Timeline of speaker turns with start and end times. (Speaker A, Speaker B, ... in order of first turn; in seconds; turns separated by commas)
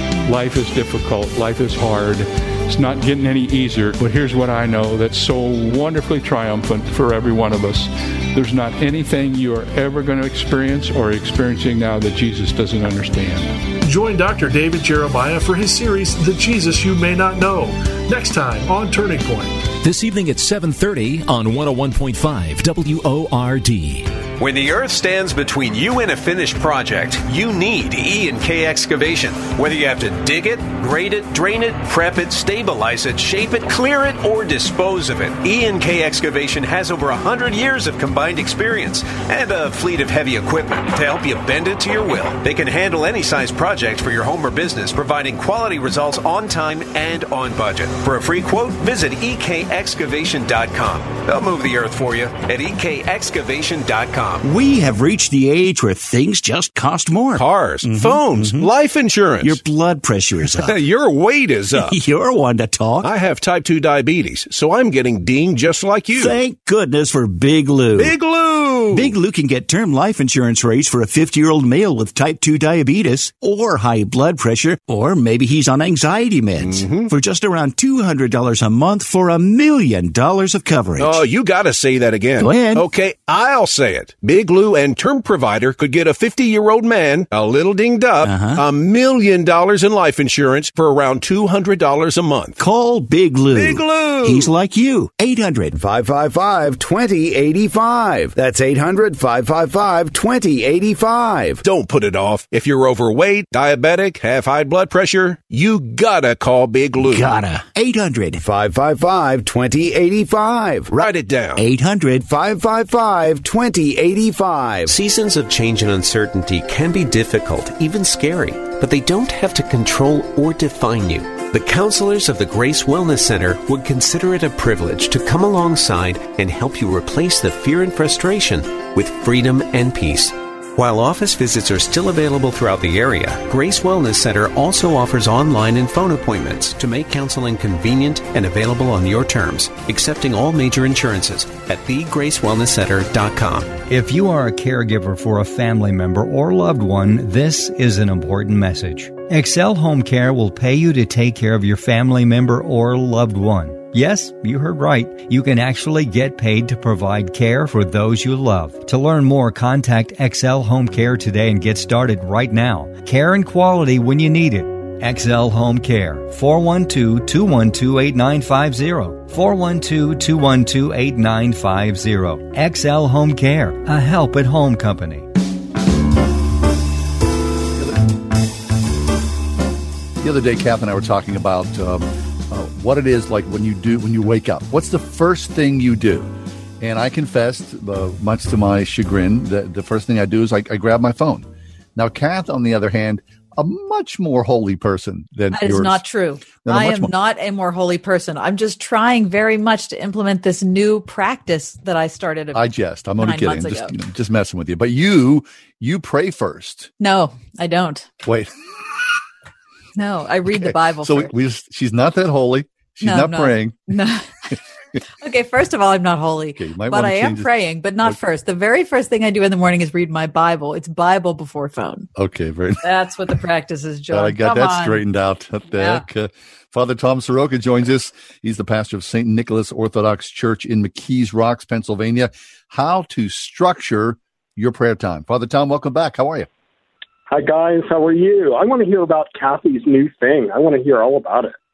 Speaker A: 0.3-13.5, Speaker B: 13.8-19.6, Speaker C: 19.8-24.0, Speaker D: 24.4-54.5, Speaker E: 54.4-58.7, Speaker F: 57.4-59.6, Speaker E: 59.4-60.8, Speaker F: 60.7-62.0, Speaker E: 61.8-63.1, Speaker F: 63.0-66.4, Speaker E: 66.2-68.1, Speaker F: 68.0-69.1, Speaker E: 68.9-81.2, Speaker F: 76.6-77.1, Speaker F: 81.0-92.6, Speaker E: 82.4-82.8, Speaker E: 88.2-88.6, Speaker E: 92.6-95.8, Speaker G: 95.7-101.6, Speaker F: 101.6-107.3, Speaker E: 107.0-108.4, Speaker G: 108.3-110.9, Speaker F: 111.0-111.7, Speaker E: 111.6-112.2, Speaker G: 112.2-115.0, Speaker D: 114.9-143.8, Speaker H: 143.9-175.3, Speaker I: 180.2-196.0, Speaker J: 195.5-202.7, Speaker I: 196.6-197.1, Speaker I: 202.5-206.9, Speaker J: 203.2-203.9, Speaker J: 207.0-208.1, Speaker I: 208.2-208.5, Speaker J: 210.0-211.3, Speaker I: 210.5-213.9, Speaker J: 213.0-214.3, Speaker J: 215.2-222.1, Speaker I: 216.6-217.5, Speaker I: 222.2-222.8, Speaker J: 222.8-225.0, Speaker I: 224.1-236.5, Speaker J: 225.7-226.0, Speaker K: 237.3-241.6